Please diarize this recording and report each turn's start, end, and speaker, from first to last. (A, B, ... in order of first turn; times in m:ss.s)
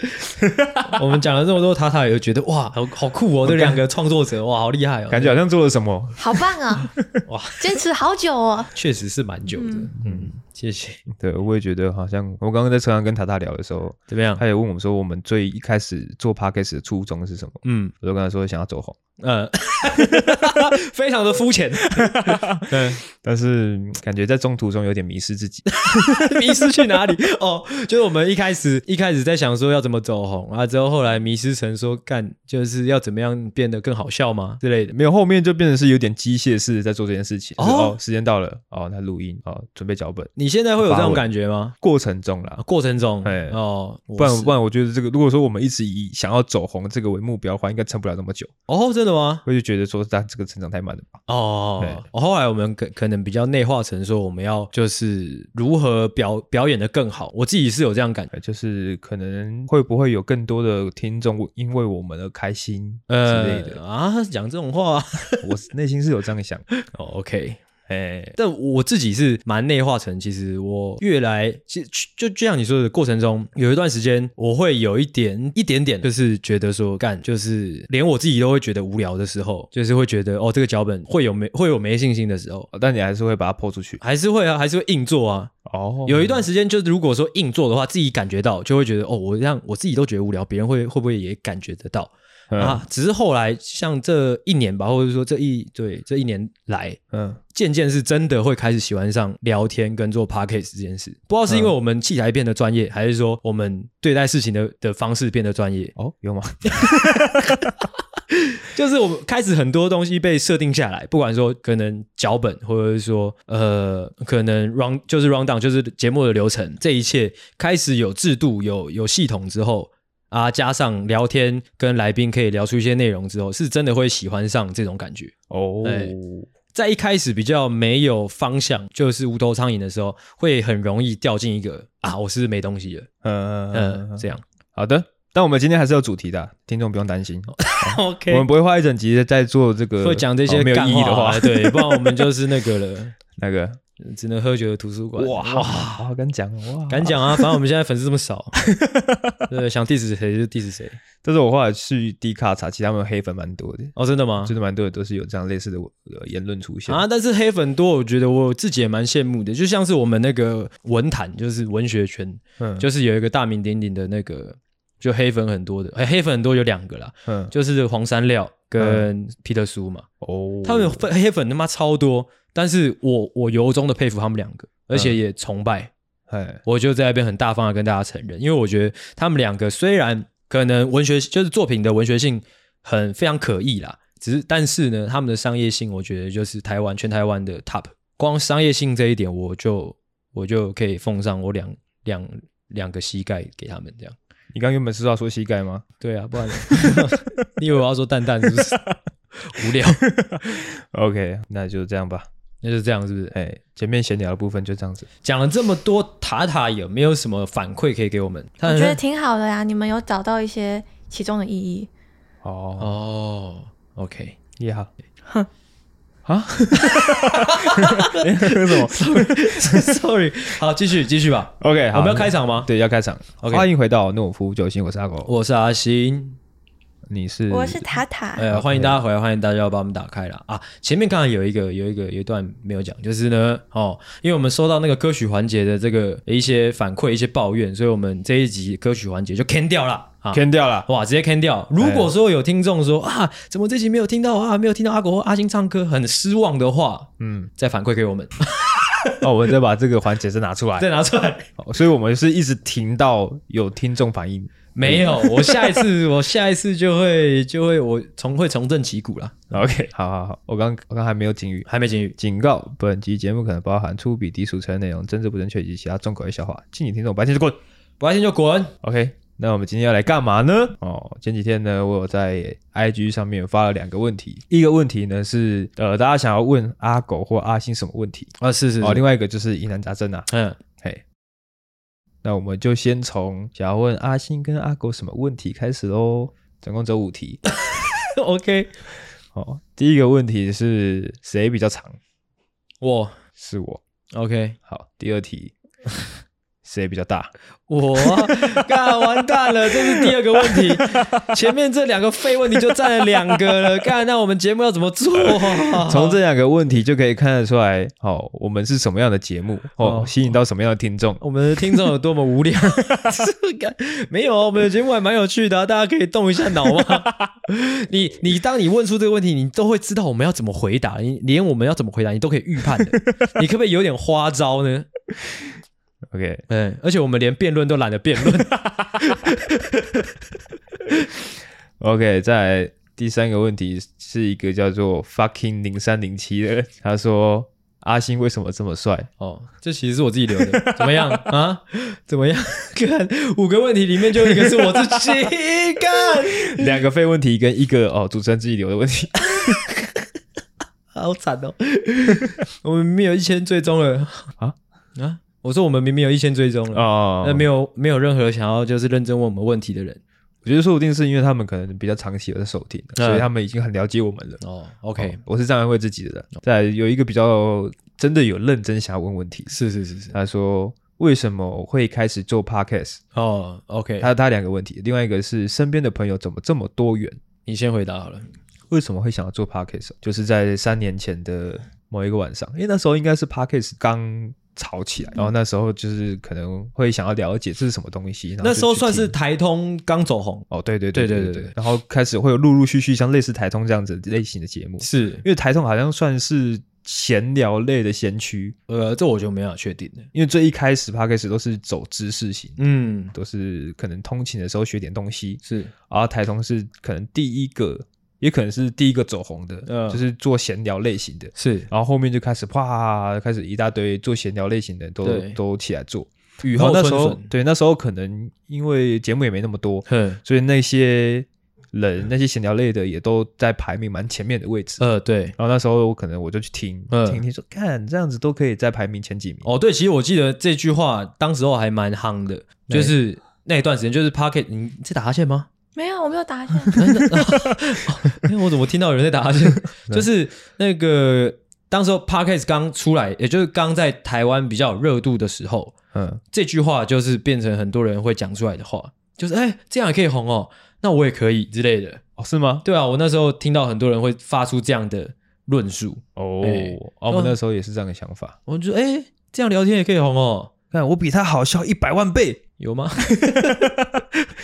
0:00.4-0:01.0 A
0:00.8-0:05.4 B
0:03.4-0:03.8 A
0:05.1-0:07.1 A
0:06.2-0:06.9 C
0:07.3-0:07.8 B
0:07.6-0:08.7 C
0:08.7-0:11.0 B
0:09.6-0:09.9 C
0:10.0-0:10.3 A
0:11.1-0:19.0 A
0:14.1-0:14.4 B
0:17.6-0:17.9 B
0:19.2-0:23.0 B
0:21.8-0:26.7 A
0:25.9-0:34.9 B
0:34.9-0:41.3 A
0:37.6-0:38.0 B
0:40.4-0:41.8 B
0:41.8-0:42.6 A
0:42.6-0:44.6 B
0:43.2-0:43.6 A
0:44.2-0:48.5 A
0:48.7-0:49.4 B
0:49.4-0:51.2 A
0:51.3-0:58.3 B
0:51.8-0:52.0 A
0:58.3-1:03.8 A
1:03.1-1:05.5 B
1:05.4-1:06.7 A
1:06.8-1:07.6 B
1:07.9-1:08.4 A
1:08.4-1:22.7 B
1:22.7-1:24.0 A
1:24.0-1:25.5 B
1:25.7-1:26.5 A
1:26.1-1:37.0 B
1:32.5-1:32.8 A
1:37.1-1:37.4 A
1:37.5-1:45.9 B
1:46.0-1:47.8 A
1:46.7-1:47.0 B
1:48.3-2:05.3 B
2:05.5-2:06.5 A
2:05.8-2:06.2 B
2:06.7-2:13.1 B
2:13.2-2:22.3 A
2:13.7-2:14.4 B
2:17.6-2:18.5 B
2:20.0-2:23.2 B
2:23.4-2:23.8 A
2:24.0-2:26.0 B
2:25.2-2:27.5 A
2:26.9-2:28.5 B
2:28.7-2:29.4 A
2:29.5-2:31.0 B
2:31.2-2:37.0 A
2:34.0-2:34.5 B
2:36.9-2:50.1 B
2:42.6-2:42.9 A
2:47.3-2:47.5 A
2:48.8-2:49.1 A
2:50.2-2:51.1 A
2:50.6-2:55.9 B
2:54.9-2:55.2 A
2:56.3-2:56.6 A
2:56.6-3:14.2 B
3:14.5-3:15.9 A
3:16.0-3:20.0 B
3:16.5-3:17.1 A
3:20.0-3:22.3 A
3:22.6-3:23.4 B
3:23.3-3:25.1 A
3:25.2-3:29.0 B
3:28.6-3:31.9 C
3:32.4-3:33.0 A
3:32.8-3:34.4 B
3:34.6-3:34.9 A
3:36.3-3:40.0 A
3:36.8-3:42.7 B
3:41.6-3:45.3 A
3:43.4-3:43.7 B
3:45.3-3:46.4 B
3:47.1-3:47.9 A
3:47.5-3:48.5 C
3:48.4-4:09.2 B
3:48.5-3:49.0 A
4:00.3-4:00.9 A
4:01.8-4:02.1 A
4:07.2-4:07.5 A
4:09.2-4:10.9 A
4:10.8-4:11.5 B
4:11.6-4:15.8 A
4:14.8-4:19.5 B
4:19.5-4:27.6 A
4:21.7-4:22.2 B
4:28.0-4:28.7 B
4:28.8-4:40.3 A
4:38.4-4:39.0 B
4:40.3-4:40.6 B
4:42.2-4:47.4 A
4:47.6-4:48.8 B
4:49.3-4:52.0 A
4:52.8-4:53.2 B
4:53.4-4:53.8 A
4:54.1-4:54.6 B
4:54.7-4:55.5 A
4:56.6-4:57.3 A
4:57.7-5:06.2 B
4:58.0-5:01.3 A
5:05.3-5:11.2 A
5:09.8-5:10.3 B
5:11.2-5:24.9 B
5:26.1-5:26.4 A
5:26.5-5:30.2 B
5:31.8-5:39.1 A
5:39.2-5:46.8 B
5:40.5-5:41.3 A
5:44.4-5:45.0 A
5:46.4-5:49.6 A
5:49.3-5:50.1 B
5:50.9-5:54.3 B
5:55.0-6:00.0 B
5:56.7-5:57.5 A
6:00.4-6:04.4 A
6:03.0-6:03.3 B
6:04.4-6:05.2 B
6:05.0-6:09.5 A
6:09.5-6:10.1 B
6:10.1-6:13.0 A
6:13.1-6:14.1 B
6:14.0-6:17.2 A
6:17.5-6:18.3 B
6:18.7-6:29.1 A
6:28.4-6:31.5 B
6:30.5-6:38.6 A
6:34.8-6:35.2 B
6:38.7-6:40.1 B
6:40.1-6:42.6 A
6:42.6-6:43.1 B
6:43.1-7:04.8 A
6:45.4-6:45.7 B
6:49.7-6:50.0 B
6:51.4-6:51.7 B
6:55.0-6:55.4 B
6:56.4-6:57.3 B
6:59.9-7:00.2 B
7:04.8-7:05.4 B
7:05.4-7:09.5 A
7:06.9-7:07.2 B
7:09.4-7:15.5 B
7:12.7-7:13.0 A
7:15.8-7:16.8 C
7:16.7-7:17.5 A
7:16.8-7:25.7 B
7:25.9-7:26.2 A
7:26.3-7:32.0 B
7:32.2-7:32.6 A
7:32.6-7:37.4 B
7:36.2-7:38.4 A
7:38.5-7:40.5 B
7:40.7-7:42.4 A
7:42.6-7:43.7 B
7:43.0-7:44.0 A